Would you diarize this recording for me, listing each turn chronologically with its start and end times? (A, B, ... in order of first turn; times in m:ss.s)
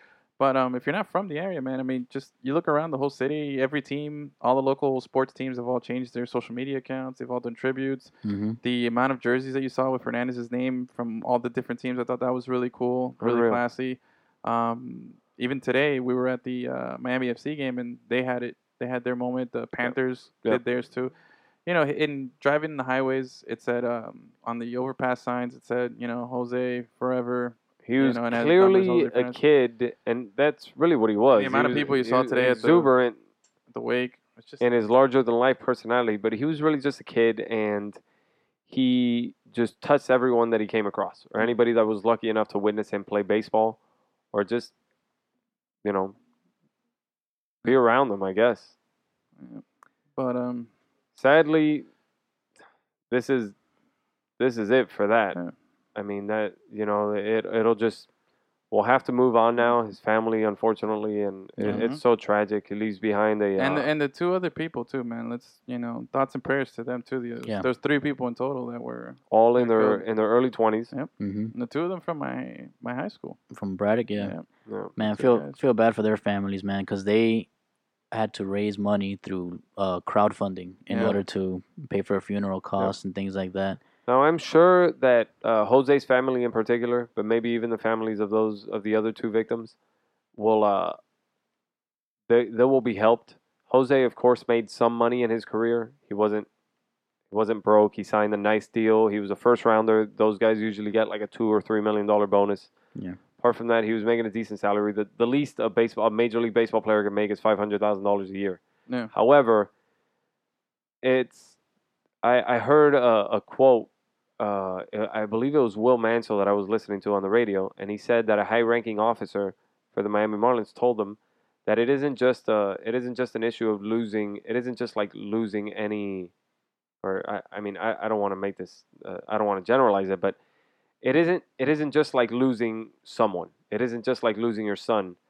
0:00.4-0:08.1 A
0:08.2-0:08.6 B
0:08.6-0:21.1 A
0:13.2-0:13.6 C
0:19.8-0:20.6 C
0:21.7-0:29.4 A
0:27.8-0:33.2 C
0:31.4-0:32.9 A
0:33.7-0:34.6 A
0:34.6-0:38.0 C
0:38.7-0:43.8 C
0:44.3-0:44.7 C
0:45.8-0:46.2 C
0:47.6-0:48.7 C
0:49.4-0:49.6 A
0:50.2-0:50.7 A
0:51.2-0:51.9 C
0:53.1-0:53.6 C
0:54.4-0:55.4 C
0:56.0-0:58.1 C
0:58.7-1:03.9 C
1:01.6-1:01.8 B
1:01.6-1:02.0 A
1:03.6-1:10.0 A
1:09.3-1:10.9 C
1:10.9-1:13.4 A
1:11.2-1:11.5 B
1:13.5-1:14.4 B
1:14.2-1:14.4 A
1:14.7-1:15.0 C
1:15.0-1:17.5 B
1:15.1-1:15.6 A
1:18.1-1:23.8 B
1:20.9-1:21.2 A
1:24.1-1:29.8 C
1:30.4-1:31.0 C
1:32.3-1:36.5 C
1:37.3-1:42.7 C
1:43.4-1:49.7 C
1:51.0-1:51.6 C
1:52.2-2:06.3 C
2:07.0-2:10.4 C
2:11.0-2:15.2 C